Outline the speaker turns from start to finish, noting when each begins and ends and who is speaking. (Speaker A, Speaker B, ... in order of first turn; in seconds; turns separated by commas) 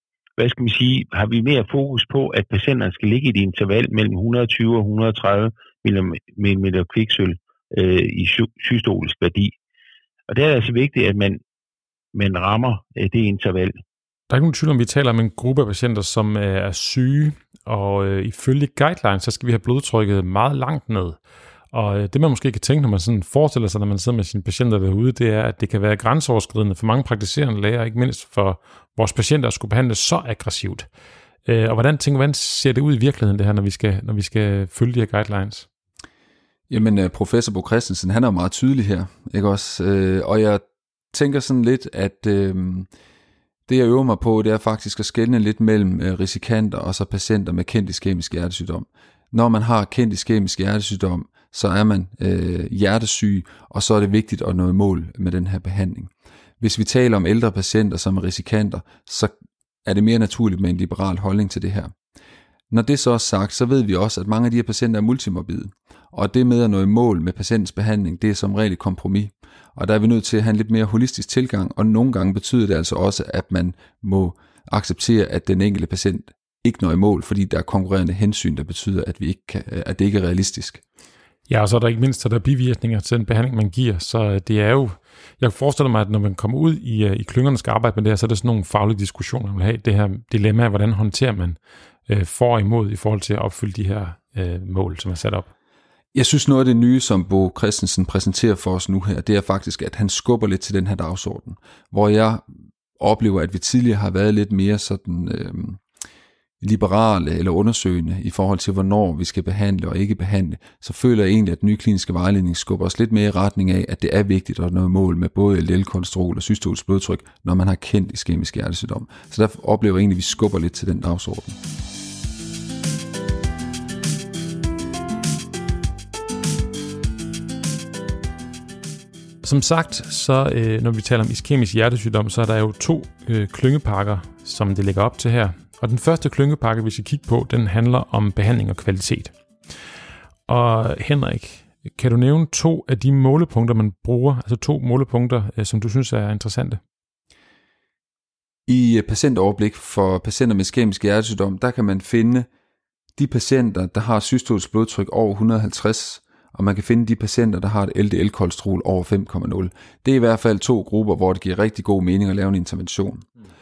Speaker A: 0.4-9.5, Speaker A: 10.3-11.4, Speaker A: 12.1-13.7, Speaker B: 14.3-21.2, Speaker B: 21.7-30.9, Speaker B: 31.5-35.7, Speaker C: 36.7-42.9, Speaker C: 43.7-59.3, Speaker C: 59.9-61.9, Speaker C: 62.7-80.8, Speaker B: 81.5-95.5, Speaker C: 96.1-102.4, Speaker C: 103.0-105.8, Speaker C: 106.6-121.6, Speaker B: 129.4-139.3, Speaker B: 140.5-146.8, Speaker C: 148.7-152.5, Speaker C: 153.2-163.2